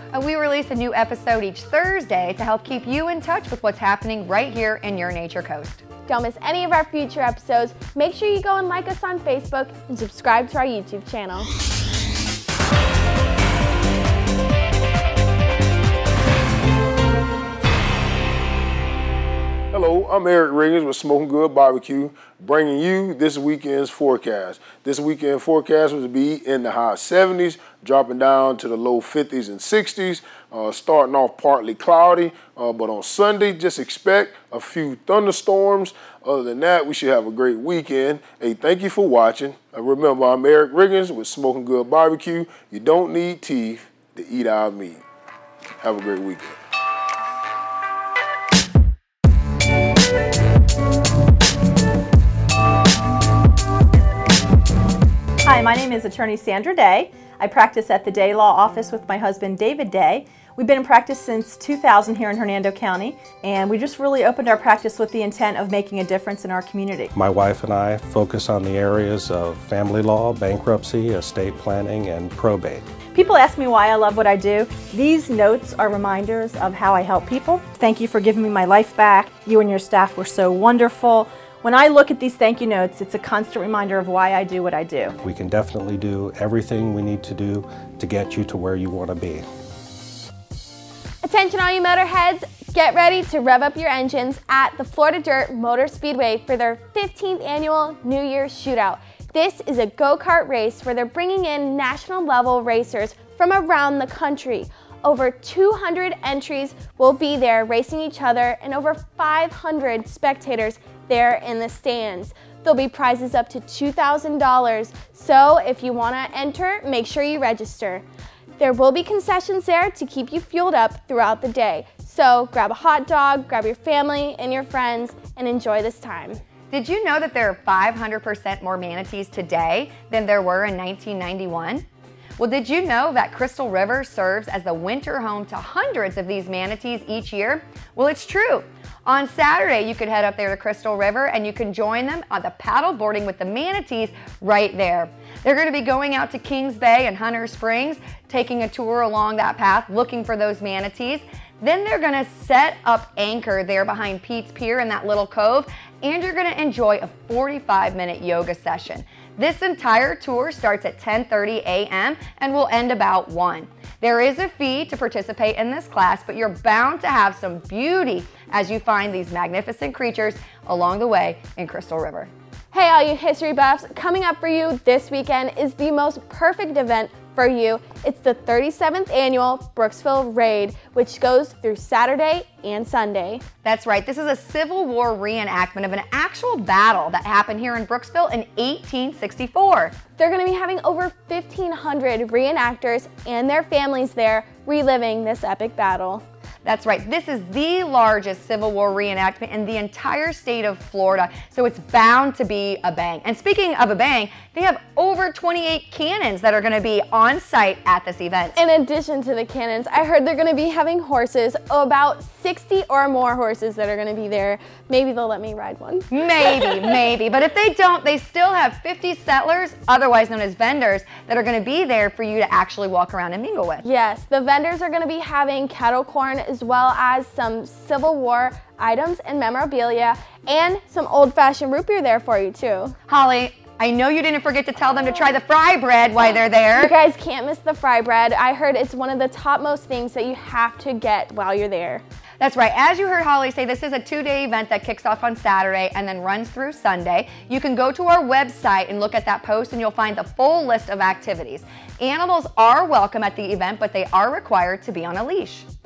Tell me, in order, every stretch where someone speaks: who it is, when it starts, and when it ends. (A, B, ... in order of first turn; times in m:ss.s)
0:00.1-0:05.8 A
0:06.1-0:11.5 B
0:19.7-0:45.0 C
0:45.8-0:46.6 C
0:55.4-1:07.1 D
1:07.1-1:12.9 E
1:13.1-1:25.1 D
1:25.2-1:29.5 E
1:31.2-1:58.0 B
1:58.6-2:06.4 B
2:06.7-2:11.8 A
2:12.4-2:52.3 A
2:52.7-3:03.4 B
3:03.6-3:10.0 A
3:10.2-3:16.2 B
3:16.6-3:28.6 A
3:28.5-3:36.8 B
3:36.1-3:43.8 A
3:43.8-3:53.0 B
3:53.1-3:56.9 A
3:56.7-4:02.0 B
4:02.4-4:15.6 A